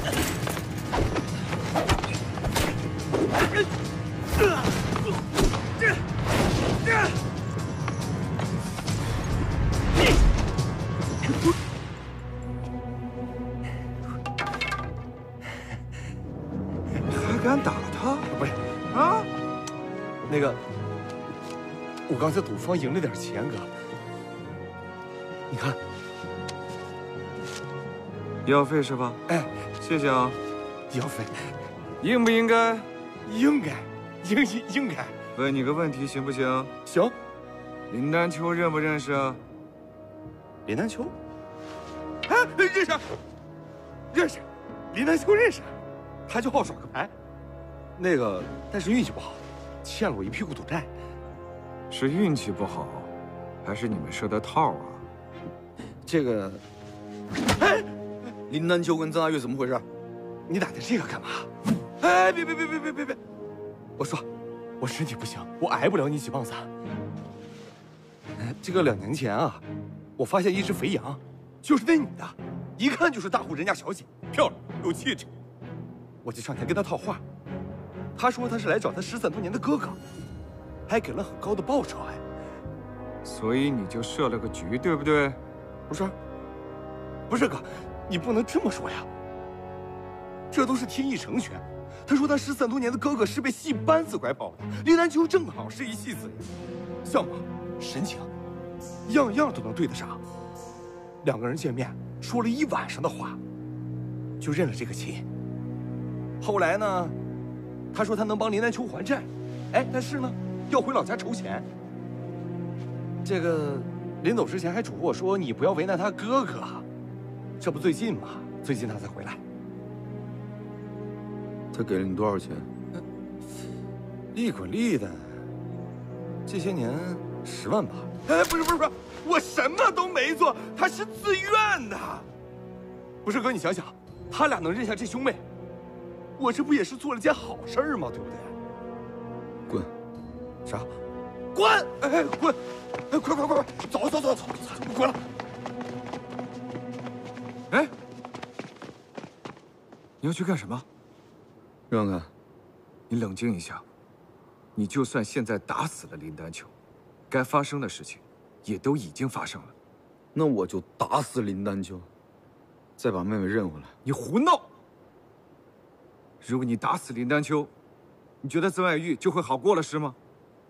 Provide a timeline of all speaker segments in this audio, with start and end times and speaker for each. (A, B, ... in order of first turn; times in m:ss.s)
0:17.1-0:18.3 A
0:18.3-0:19.3 B
0:20.3-0:20.6 B
0:22.1-0:23.7 B
0:25.5-0:25.8 B
0:28.4-0:29.2 A
0:29.3-0:29.5 B
0:29.8-0:30.4 A
0:30.9-0:31.5 B
0:32.0-0:32.9 A
0:33.2-0:35.1 B
0:35.3-0:36.7 A
0:36.8-0:37.2 B
0:37.9-0:39.4 A
0:40.6-0:41.1 B
0:42.3-0:43.0 B
0:44.1-0:45.7 B
0:46.3-0:47.1 B
0:48.0-0:50.9 B
0:51.9-0:53.1 A
0:53.6-0:55.0 A
0:56.1-0:56.6 C
0:57.6-0:57.9 B
0:58.5-0:59.8 C
1:00.5-1:01.5 B
1:02.0-1:03.2 B
1:04.0-1:04.2 B
1:04.8-1:06.7 B
1:08.4-1:09.6 B
1:10.2-1:15.3 B
1:16.2-1:17.2 B
1:18.2-1:20.0 B
1:20.9-1:22.2 B
1:23.2-1:25.4 A
1:25.9-1:26.1 B
1:27.3-1:29.1 B
1:30.5-1:36.4 B
1:37.0-1:38.3 B
1:39.1-1:40.2 B
1:41.2-1:43.4 B
1:44.4-1:45.2 B
1:46.4-1:47.1 B
1:47.9-1:51.7 B
1:53.2-1:56.8 B
1:57.6-1:59.4 B
2:01.7-2:02.7 C
2:04.3-2:05.4 B
2:06.4-2:12.3 B
2:13.2-2:15.4 B
2:16.4-2:18.5 B
2:20.6-2:20.9 B
2:21.5-2:22.6 B
2:23.1-2:25.2 B
2:30.2-2:30.8 A
2:31.9-2:32.3 C
2:33.1-2:33.8 A
2:34.8-2:36.7 A
2:37.3-2:39.7 A
2:40.3-2:42.1 C
2:43.0-2:44.0 C
2:44.0-2:44.6 A
2:46.4-2:47.7 A
2:48.4-2:50.2 A